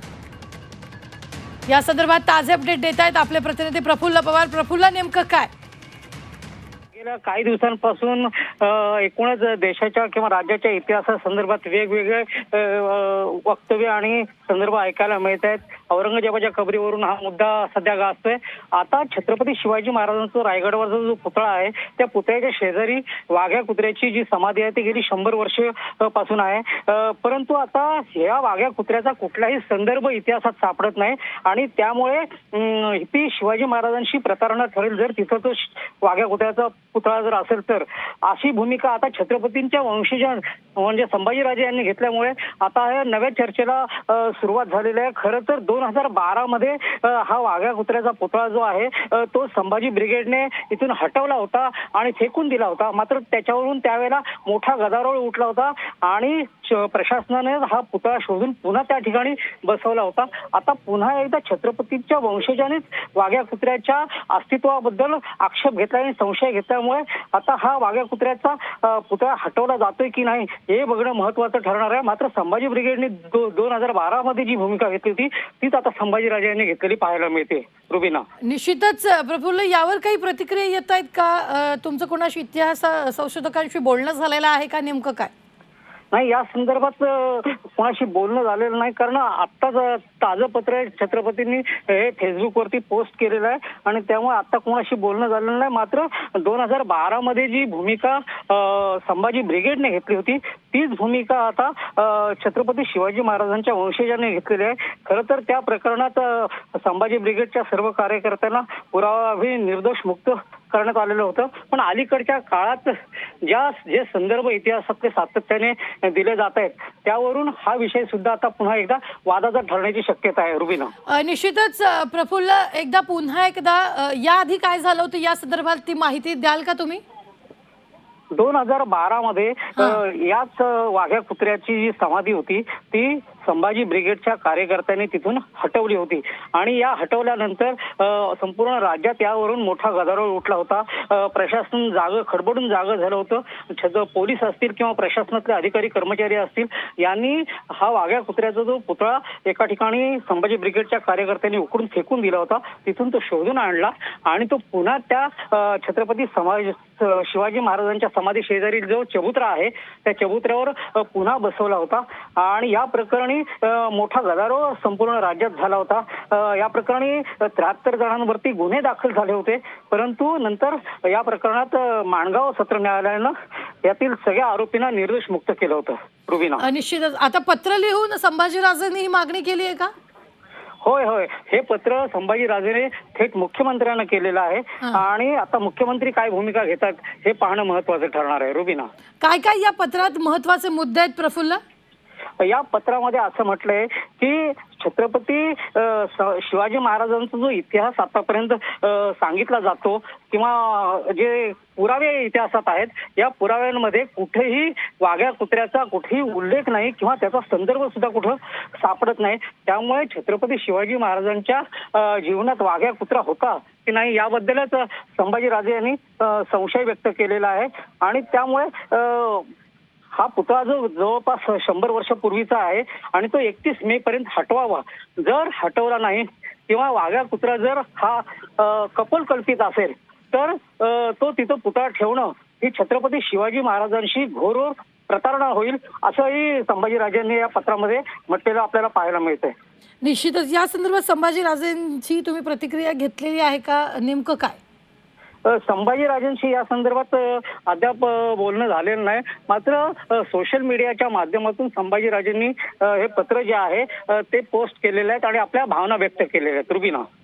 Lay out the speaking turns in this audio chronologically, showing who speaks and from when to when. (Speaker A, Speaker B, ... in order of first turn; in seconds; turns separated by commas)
Speaker A: 1.7-5.5, Speaker B: 7.0-78.3, Speaker A: 78.4-85.3, Speaker B: 86.1-120.9, Speaker A: 121.1-127.0, Speaker B: 128.3-173.3, Speaker B: 173.8-176.7, Speaker A: 176.6-179.9, Speaker B: 180.8-188.9, Speaker A: 189.2-191.6, Speaker B: 192.4-219.5, Speaker B: 220.1-239.5, Speaker A: 240.0-244.6, Speaker B: 245.5-257.1